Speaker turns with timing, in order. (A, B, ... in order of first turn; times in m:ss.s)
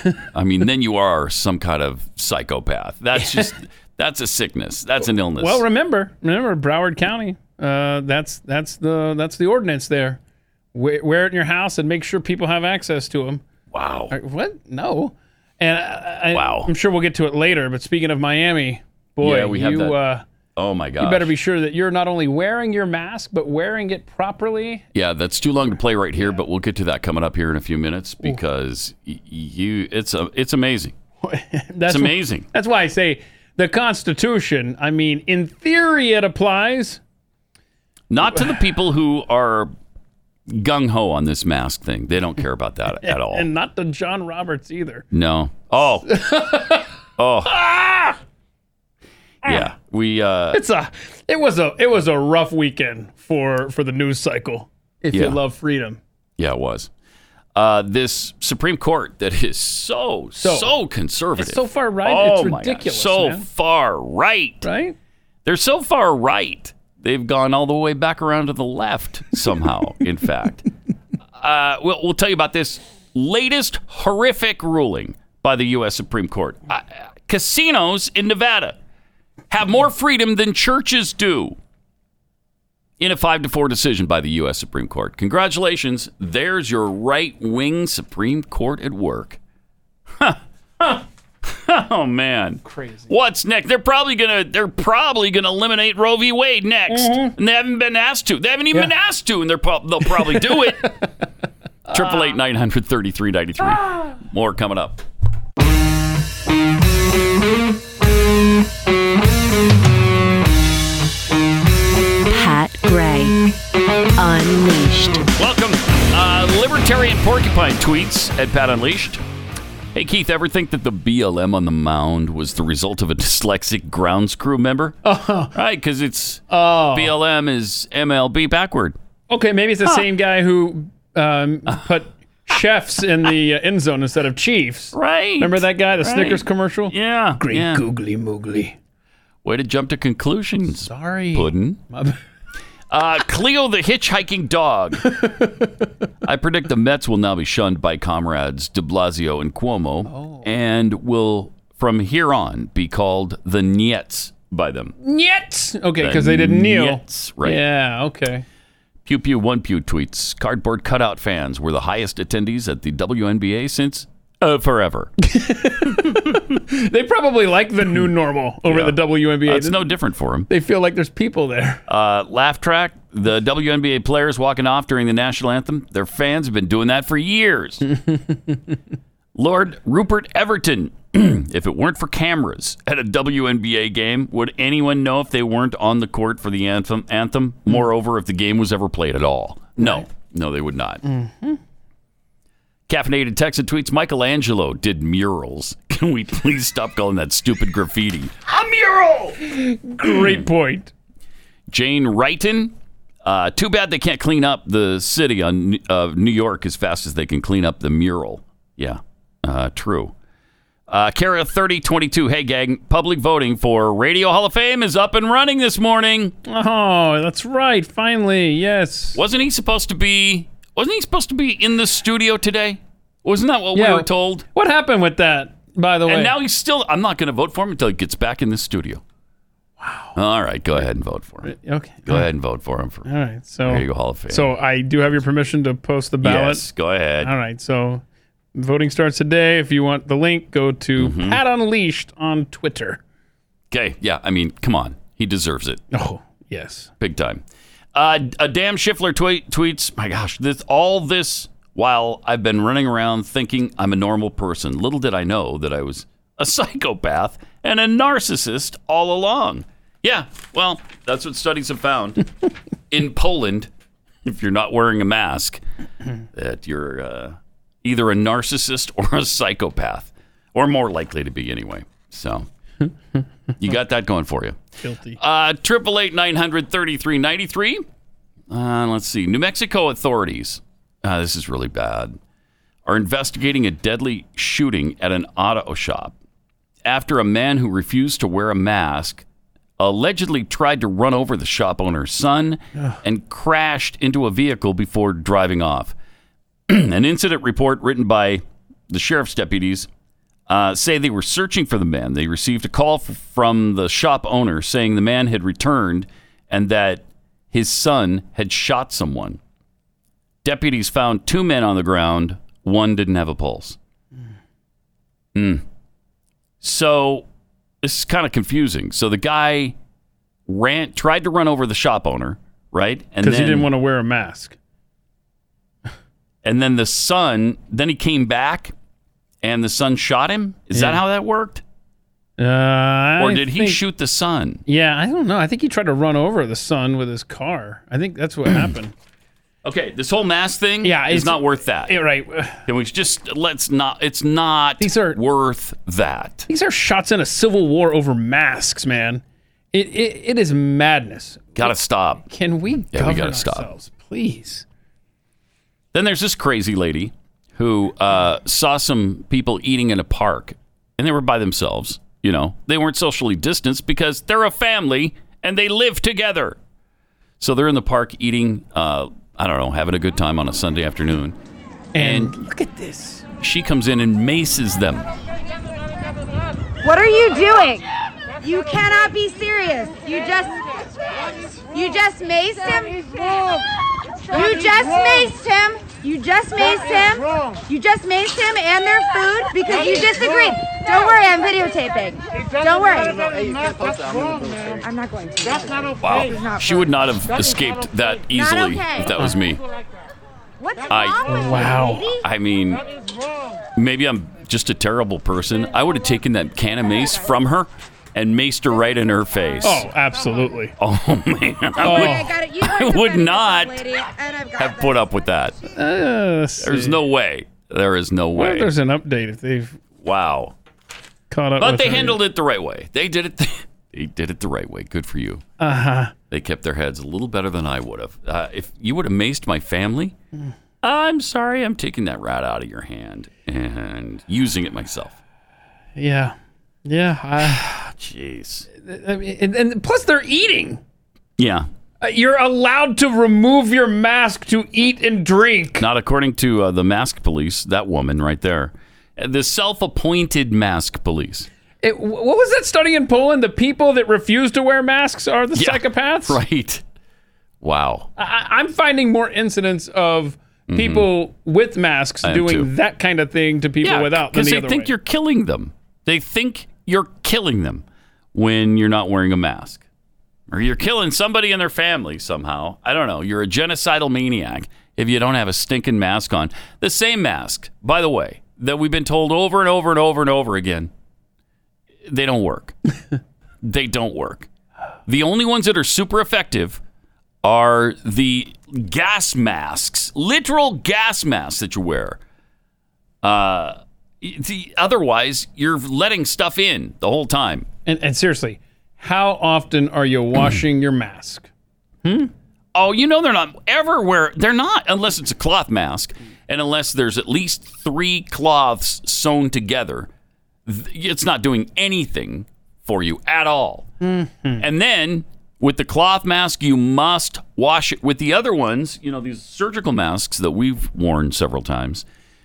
0:00.3-0:05.6 A
0:03.2-0:03.5 B
0:05.4-0:10.2 B
0:10.7-0:13.4 B
0:13.7-0:14.1 A
0:14.1-0:20.2 B
0:16.3-0:16.7 A
0:19.2-0:20.0 A
0:20.6-0:21.3 A
0:21.0-0:24.8 B
0:24.9-0:30.9 A
0:31.2-0:37.0 B
0:31.9-0:32.5 A
0:38.1-0:39.7 A
0:40.5-0:43.5 A
0:43.0-0:45.0 B
0:45.1-0:46.1 A
0:46.1-0:46.9 B
0:47.2-0:47.6 A
0:47.5-0:48.2 B
0:49.4-0:50.6 A
0:50.5-0:56.0 B
0:55.1-0:55.4 A
0:56.4-0:56.9 A
0:57.5-1:04.6 A
1:00.4-1:00.7 B
1:01.4-1:03.4 B
1:04.6-1:05.0 B
1:05.4-1:10.6 A
1:11.4-1:18.8 A
1:19.5-1:21.6 A
1:23.0-1:29.4 A
1:30.2-1:40.9 A
1:32.6-1:33.1 B
1:36.9-1:37.3 B
1:40.2-1:41.0 B
1:41.9-1:42.4 B
1:41.9-1:45.0 A
1:52.3-1:53.4 C
1:54.2-1:55.2 C
1:55.4-1:59.2 A
1:59.9-2:05.0 A
2:05.0-2:05.5 B
2:05.5-2:09.0 A
2:06.5-2:07.1 B
2:09.3-2:18.8 B
2:14.9-2:17.8 A
2:19.4-2:21.8 A
2:20.7-2:22.2 B
2:22.9-2:25.1 A
2:25.0-2:25.8 B
2:26.2-2:34.9 A
2:30.0-2:30.5 B
2:35.0-2:38.4 B
2:36.0-2:37.6 A
2:39.0-2:45.1 A
2:45.3-2:49.9 B
2:48.6-2:50.5 A
2:50.5-2:51.8 B
2:51.9-2:57.8 A
2:57.9-2:58.6 B
2:59.3-3:11.0 A
3:09.8-3:10.1 B
3:11.0-3:11.6 B
3:12.9-3:19.4 A
3:19.4-3:20.9 B
3:20.0-3:20.4 A
3:21.7-3:22.7 A
3:23.2-3:30.1 A
3:30.9-3:36.3 A
3:36.4-3:39.2 B
3:39.1-3:44.4 A
3:43.7-3:46.3 B
3:46.0-3:49.0 A
3:49.8-3:50.1 B
3:50.2-3:51.5 A
3:51.4-3:52.3 B
3:52.1-3:53.1 A
3:53.0-3:56.6 B
3:53.6-3:54.5 A
3:56.2-3:57.3 A
3:57.2-3:58.0 B
3:58.5-4:03.0 B
4:01.0-4:01.4 A
4:03.7-4:05.8 A
4:05.9-4:06.9 B
4:07.0-4:07.4 A
4:07.9-4:22.3 A
4:22.9-4:23.7 A
4:24.2-4:25.6 A
4:26.3-4:32.5 A
4:33.6-4:34.6 A
4:34.8-4:35.2 B
4:35.2-4:37.8 A
4:38.5-4:42.2 A
4:42.8-4:46.1 A
4:46.8-4:49.2 A
4:49.8-4:55.9 A
4:56.7-4:59.9 A
5:00.5-5:09.4 A
5:10.4-5:13.8 A
5:15.3-5:15.6 A
5:16.6-5:17.2 A
5:17.8-5:19.7 A
5:20.5-5:23.7 A
5:23.2-5:24.6 B
5:26.4-5:28.7 A
5:29.4-5:31.6 A
5:30.7-5:31.0 B
5:32.4-5:33.8 B
5:33.2-5:34.6 A
5:34.7-5:38.9 B
5:39.6-5:41.9 A
5:40.8-5:42.6 B
5:42.6-5:46.5 A
5:44.8-5:45.2 B
5:46.5-5:49.2 B
5:49.7-5:54.6 B
5:51.6-5:52.2 A
5:52.9-5:53.7 A
5:55.9-6:06.6 A
6:07.4-6:11.3 A
6:11.9-6:13.2 B
6:12.0-6:12.3 A
6:13.4-6:15.1 A
6:16.8-6:17.8 D
6:18.4-6:20.6 D
6:21.7-6:23.6 D
6:24.3-6:35.9 D
6:36.0-6:39.6 A
6:38.3-6:39.1 D
6:40.6-6:42.2 D
6:40.9-6:41.6 A
6:41.3-6:42.1 B
6:42.2-6:42.8 A
6:43.8-6:49.8 A
6:49.6-6:50.7 B
6:50.8-6:53.8 A
6:51.8-6:52.3 B
6:51.8-6:55.0 D
6:54.6-6:55.6 A
6:55.8-6:57.0 B
6:56.6-6:58.7 A
6:58.3-6:59.8 B
7:00.0-7:00.5 A
7:01.3-7:02.2 B
7:01.6-7:05.4 A
7:05.6-7:06.1 B
7:06.3-7:10.1 A
7:10.8-7:15.2 A
7:16.0-7:17.6 B
7:17.4-7:18.7 A
7:18.8-7:20.8 B
7:21.4-7:21.7 A
7:22.0-7:25.8 B
7:25.8-7:31.5 A
7:31.8-7:36.4 B
7:35.5-7:36.8 A
7:37.6-7:38.1 A
7:38.2-7:44.9 B
7:40.7-7:41.1 A
7:42.2-7:42.7 A
7:43.8-7:49.8 A
7:50.5-8:00.9 A
8:02.0-8:02.7 A
8:03.6-8:04.5 A
8:05.1-8:06.8 A
8:07.4-8:12.2 A
8:13.2-8:17.7 A
8:17.8-8:21.5 B
8:22.0-8:22.3 B
8:22.7-8:30.1 A
8:30.6-8:33.9 A
8:34.0-8:34.6 B
8:34.6-8:42.0 A